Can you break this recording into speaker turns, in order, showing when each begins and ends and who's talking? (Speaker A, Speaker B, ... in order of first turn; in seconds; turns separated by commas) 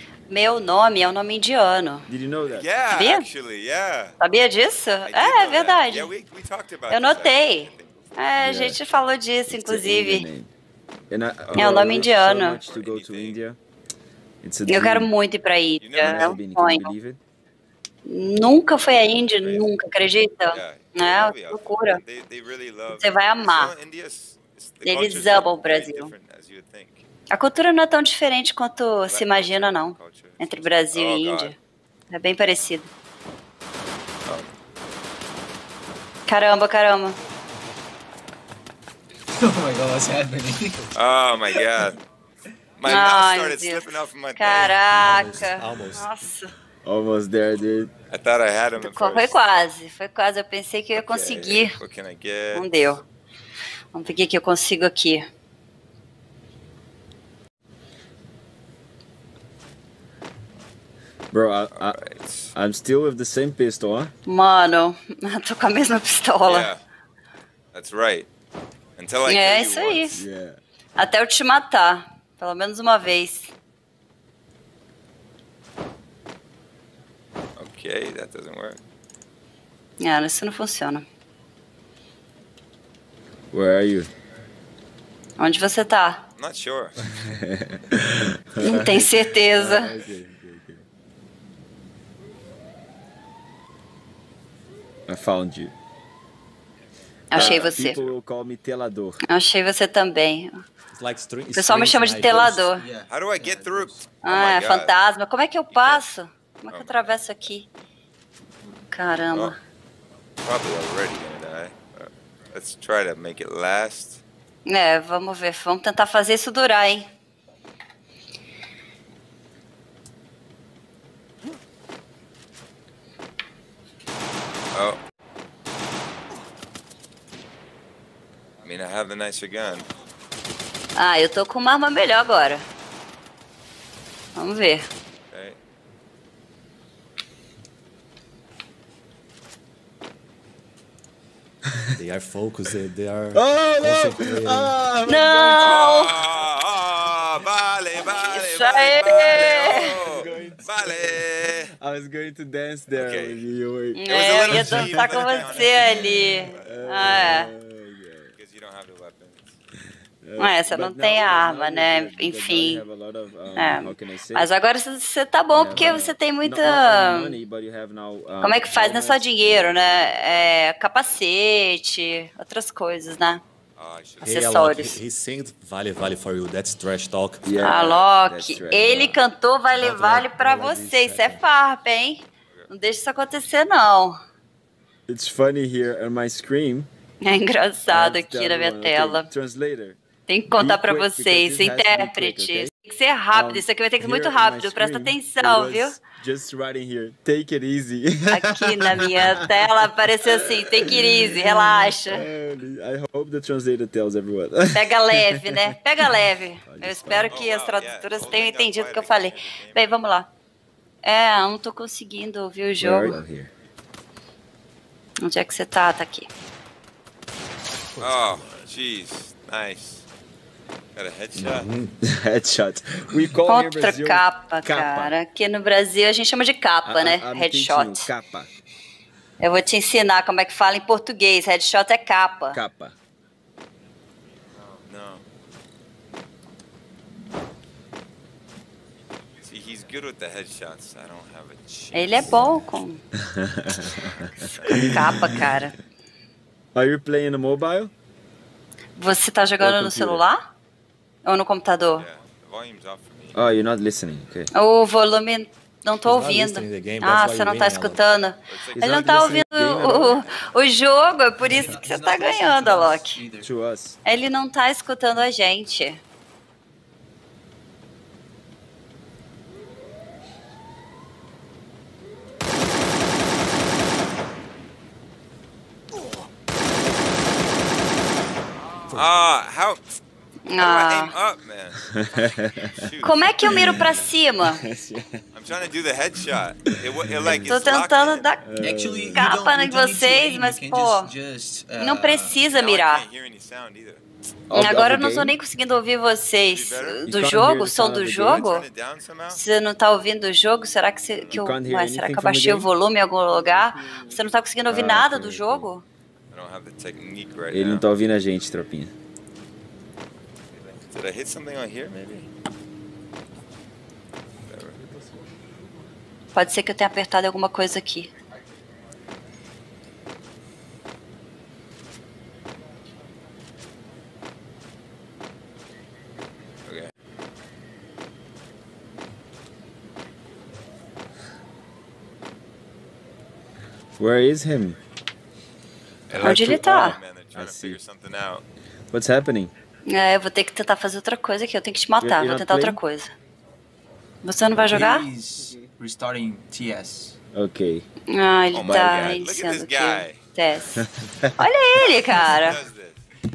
Speaker A: 0.3-2.1, Speaker B: 2.1-2.7, Speaker C: 2.5-4.2, Speaker A: 2.9-3.2, Speaker A: 4.2-6.1, Speaker C: 5.0-9.1, Speaker A: 6.9-10.3, Speaker B: 8.4-8.8, Speaker B: 9.5-10.5, Speaker B: 11.1-13.6, Speaker C: 11.5-12.1, Speaker A: 11.6-12.6, Speaker C: 12.6-13.4, Speaker B: 14.4-15.1, Speaker A: 14.7-16.9, Speaker C: 15.8-16.4, Speaker B: 16.0-17.2, Speaker A: 18.1-22.0, Speaker C: 19.1-19.7, Speaker C: 20.5-27.1, Speaker A: 22.9-23.7, Speaker A: 24.8-26.1, Speaker A: 27.3-31.6, Speaker C: 29.1-31.6, Speaker A: 32.1-32.9, Speaker C: 34.3-34.5, Speaker A: 36.3-37.2, Speaker D: 39.3-40.9, Speaker C: 40.9-42.0, Speaker C: 42.8-44.8, Speaker A: 42.9-46.5, Speaker E: 44.8-46.1, Speaker B: 46.9-47.9, Speaker C: 48.1-49.4, Speaker A: 48.8-51.8, Speaker C: 51.0-52.9, Speaker A: 52.5-53.0, Speaker A: 53.9-55.2, Speaker B: 61.3-62.0, Speaker C: 61.7-62.5, Speaker B: 62.5-64.1, Speaker A: 64.3-66.7, Speaker C: 66.5-66.8, Speaker C: 67.7-68.3, Speaker C: 69.0-70.2, Speaker A: 69.3-70.2, Speaker B: 70.1-70.6, Speaker A: 71.0-73.5, Speaker C: 77.6-78.8, Speaker A: 80.0-81.0, Speaker B: 83.5-84.1, Speaker A: 85.4-86.2, Speaker C: 86.4-87.0, Speaker B: 87.1-90.8, Speaker A: 88.6-89.9, Speaker B: 95.1-95.7, Speaker A: 97.3-98.1, Speaker B: 97.3-99.2, Speaker A: 99.3-100.6, Speaker E: 100.9-102.7, Speaker A: 101.5-102.9, Speaker D: 102.7-104.1, Speaker C: 103.1-104.9, Speaker A: 104.2-107.7, Speaker C: 105.7-106.1, Speaker C: 106.7-107.5, Speaker A: 108.9-109.6, Speaker C: 110.4-114.2, Speaker A: 114.7-117.1, Speaker C: 124.7-125.0, Speaker C: 128.6-129.9, Speaker A: 131.0-132.6, Speaker A: 134.4-134.9, Speaker C: 135.3-135.6, Speaker E: 142.0-144.8, Speaker B: 143.3-145.9, Speaker A: 145.1-146.2, Speaker C: 145.6-151.7, Speaker A: 148.1-150.1, Speaker B: 149.1-151.2, Speaker B: 151.8-158.3, Speaker C: 152.9-153.4, Speaker A: 154.0-157.5, Speaker C: 154.1-157.4, Speaker C: 158.4-159.5, Speaker B: 160.2-164.5, Speaker A: 160.4-162.8, Speaker A: 163.6-167.4, Speaker B: 165.5-170.3, Speaker A: 168.4-173.4, Speaker C: 173.8-174.7, Speaker E: 174.2-177.5, Speaker A: 174.3-175.0, Speaker B: 177.4-179.2, Speaker A: 177.5-184.2, Speaker E: 179.8-181.4, Speaker B: 185.1-186.9, Speaker A: 187.2-189.3, Speaker B: 187.9-190.0, Speaker A: 190.3-196.0, Speaker B: 190.6-192.7, Speaker B: 193.3-199.6, Speaker A: 198.3-202.3, Speaker B: 200.2-205.6, Speaker A: 204.7-210.3, Speaker B: 206.6-207.4, Speaker C: 207.2-209.9, Speaker A: 211.0-213.2, Speaker B: 212.8-213.5, Speaker A: 215.2-216.3, Speaker E: 217.9-218.6, Speaker C: 218.0-220.1, Speaker C: 221.0-221.7, Speaker B: 221.4-225.2, Speaker E: 221.5-221.9, Speaker A: 223.5-228.1, Speaker B: 226.8-228.5, Speaker A: 229.4-232.6, Speaker B: 232.5-232.9, Speaker C: 234.9-235.2, Speaker C: 239.4-242.7, Speaker A: 241.9-243.0, Speaker E: 242.2-242.6, Speaker B: 243.2-245.6, Speaker C: 243.9-245.3, Speaker A: 244.8-245.7, Speaker B: 246.8-247.9, Speaker A: 249.0-250.4, Speaker B: 249.6-250.2, Speaker A: 251.2-252.1, Speaker C: 252.0-253.4, Speaker B: 253.3-254.5, Speaker A: 254.5-263.2, Speaker E: 256.0-258.0, Speaker C: 258.5-260.5, Speaker B: 258.7-260.2, Speaker D: 261.4-263.5, Speaker B: 263.4-264.0, Speaker A: 264.1-266.0, Speaker C: 278.9-279.8, Speaker A: 280.5-281.1, Speaker C: 280.6-281.8, Speaker B: 281.9-282.7, Speaker C: 282.7-283.9, Speaker A: 283.0-284.6, Speaker B: 283.5-285.2, Speaker C: 285.3-288.4, Speaker A: 287.4-288.6, Speaker B: 288.4-289.3, Speaker D: 288.6-292.4, Speaker A: 289.1-291.1, Speaker A: 291.8-293.1, Speaker C: 292.4-294.0, Speaker B: 294.5-295.3, Speaker A: 294.5-298.7, Speaker C: 296.5-297.2, Speaker B: 297.0-298.5, Speaker C: 298.1-299.4, Speaker A: 299.3-305.9, Speaker C: 301.1-301.5, Speaker B: 301.3-302.7, Speaker B: 304.7-305.7, Speaker C: 306.3-307.9, Speaker B: 307.5-308.9, Speaker C: 310.5-312.3, Speaker C: 314.5-314.8, Speaker A: 316.3-318.1, Speaker B: 334.0-334.8, Speaker C: 336.1-338.4, Speaker B: 336.1-337.8, Speaker A: 336.2-337.0, Speaker B: 338.9-339.5, Speaker A: 339.9-343.1, Speaker B: 342.0-342.8, Speaker A: 344.2-345.1, Speaker D: 344.5-347.2, Speaker B: 347.3-347.9, Speaker A: 348.1-350.9, Speaker C: 348.5-350.2, Speaker B: 348.6-349.2, Speaker B: 350.8-351.4, Speaker A: 351.4-352.6, Speaker C: 352.1-353.0